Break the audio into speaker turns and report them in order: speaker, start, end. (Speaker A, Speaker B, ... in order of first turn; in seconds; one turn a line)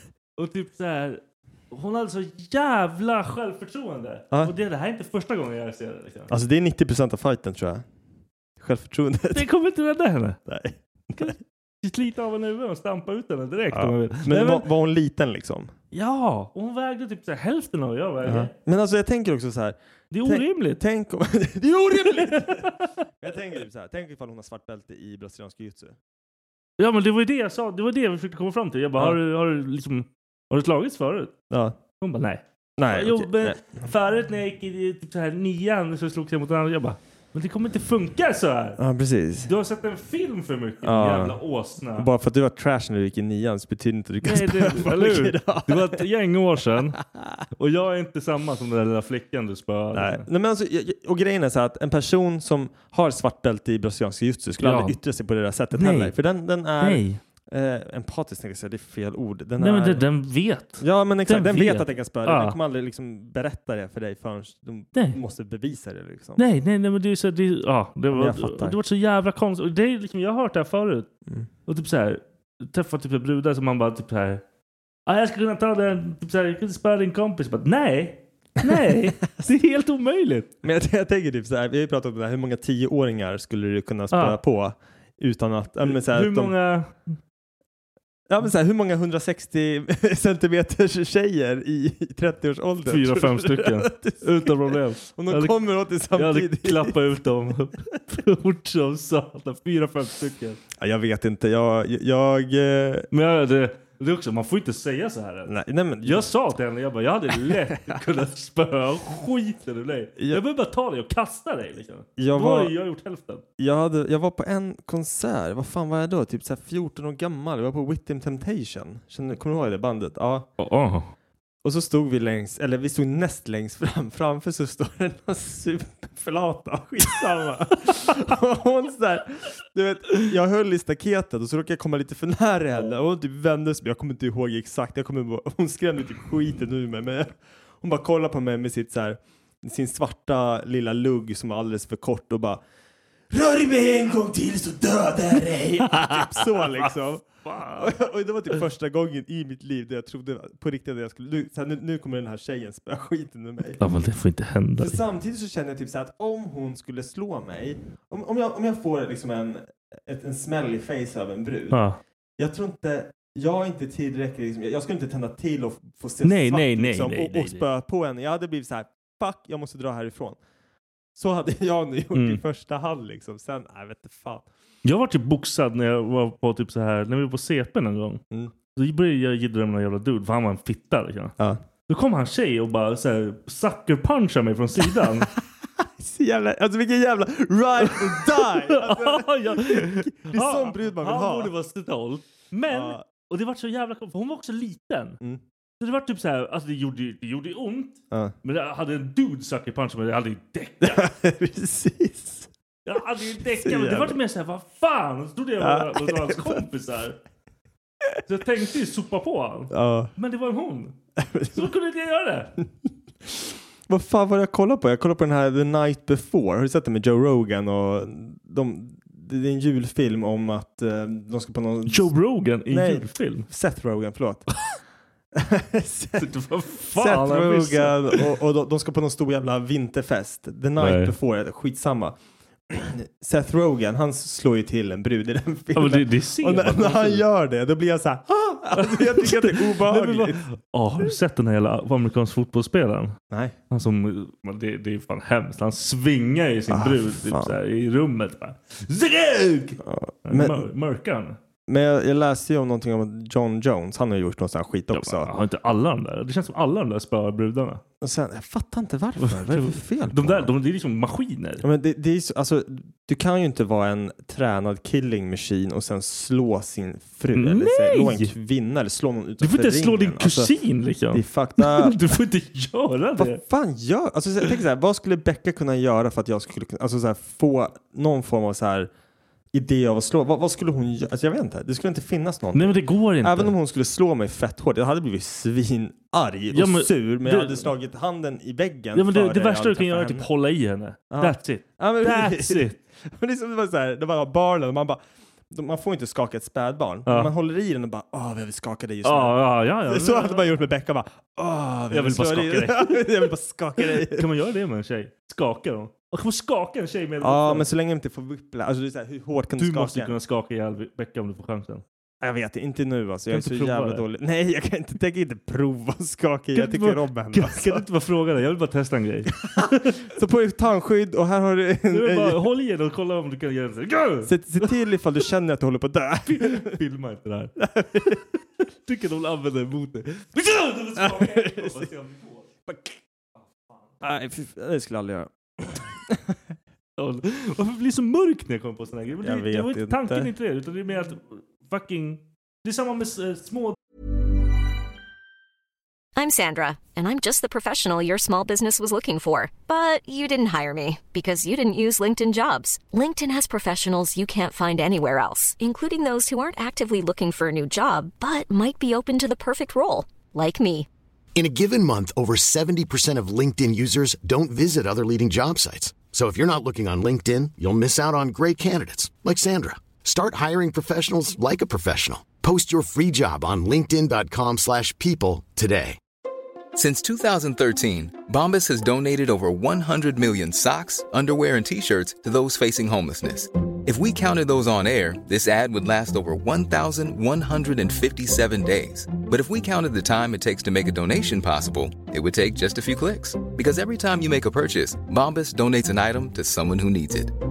Speaker A: 0.4-6.3
Speaker B: 6.3-7.8
Speaker B: 8.6-9.4
Speaker A: 9.3-10.4
Speaker B: 10.4-11.3
Speaker A: 11.2-14.7
Speaker B: 13.7-15.7
Speaker A: 15.9-18.5
Speaker B: 18.2-26.0
Speaker A: 20.1-20.8
Speaker A: 22.2-22.9
Speaker A: 26.8-31.3
Speaker B: 31.5-31.8
Speaker A: 32.0-38.8
Speaker B: 32.8-33.6
Speaker B: 38.8-39.5
Speaker A: 39.4-42.1
Speaker B: 40.8-41.4
Speaker B: 42.0-46.0
Speaker A: 44.2-47.0
Speaker B: 47.0-47.4
Speaker A: 47.5-50.2
Speaker B: 49.9-60.0
Speaker A: 54.6-55.0
Speaker A: 55.7-56.1
Speaker A: 56.8-57.2
Speaker A: 59.6-62.6
Speaker B: 60.8-66.4
Speaker A: 66.4-71.1
Speaker B: 68.1-68.8
Speaker A: 71.7-74.4
Speaker A: 75.1-80.5
Speaker B: 80.6-86.5
Speaker A: 84.1-84.4
Speaker A: 85.9-87.2
Speaker B: 88.3-97.0
Speaker A: 92.9-95.6
Speaker A: 96.1-100.6
Speaker B: 100.8-103.1
Speaker A: 103.1-105.5
Speaker B: 105.5-106.3
Speaker A: 106.0-113.4
Speaker B: 107.3-108.0
Speaker B: 112.2-112.7
Speaker B: 113.6-120.5
Speaker A: 120.6-121.1
Speaker B: 121.6-142.6
Speaker B: 143.3-147.2
Speaker A: 145.9-147.9
Speaker B: 147.8-153.8
Speaker A: 153.8-155.0
Speaker B: 154.8-161.8
Speaker A: 161.7-162.0
Speaker B: 162.4-170.4
Speaker A: 166.2-167.7
Speaker B: 171.1-174.5
Speaker A: 172.1-172.4
Speaker A: 174.8-178.2
Speaker A: 178.7-181.3
Speaker A: 181.9-185.3
Speaker B: 185.8-191.5
Speaker A: 188.1-195.2
Speaker B: 192.7-193.0
Speaker A: 195.8-201.0
Speaker B: 200.8-202.5
Speaker A: 202.8-207.2
Speaker B: 203.5-204.2
Speaker B: 205.6-206.6
Speaker A: 208.2-211.0
Speaker B: 209.7-210.1
Speaker B: 211.2-211.7
Speaker A: 211.5-212.5
Speaker B: 213.2-222.1
Speaker A: 221.9-223.5
Speaker B: 222.7-224.5
Speaker B: 225.3-226.3
Speaker A: 226.2-228.3
Speaker B: 226.9-232.2
Speaker A: 230.8-231.1
Speaker B: 232.7-240.4
Speaker A: 235.7-237.2
Speaker A: 238.8-243.2
Speaker B: 243.3-243.6
Speaker A: 243.7-251.4
Speaker B: 246.7-247.5
Speaker B: 249.8-250.7
Speaker B: 251.7-255.3
Speaker A: 254.9-257.8
Speaker B: 258.0-260.5
Speaker A: 259.2-261.6
Speaker B: 261.6-270.5
Speaker A: 267.3-268.3
Speaker A: 269.4-273.4
Speaker B: 271.1-272.0
Speaker B: 273.2-278.9
Speaker B: 279.5-290.3
Speaker A: 282.5-283.5
Speaker A: 286.5-287.7
Speaker A: 288.9-292.8
Speaker B: 291.1-304.3
Speaker A: 297.1-297.3
Speaker A: 299.0-300.5
Speaker A: 301.9-307.6
Speaker B: 307.2-310.1
Speaker A: 309.6-311.8
Speaker B: 312.2-317.8
Speaker A: 313.3-314.0
Speaker A: 316.5-319.9
Speaker B: 319.4-322.4
Speaker A: 321.9-324.7
Speaker B: 324.2-326.8
Speaker A: 326.2-327.5
Speaker B: 327.6-328.2
Speaker A: 328.8-332.5
Speaker B: 331.0-331.9
Speaker B: 332.7-332.9
Speaker A: 333.3-333.9
Speaker B: 334.0-336.4
Speaker A: 337.0-343.8
Speaker B: 339.2-340.3
Speaker C: 346.1-360.9
Speaker D: 361.3-376.0
Speaker E: 376.7-397.3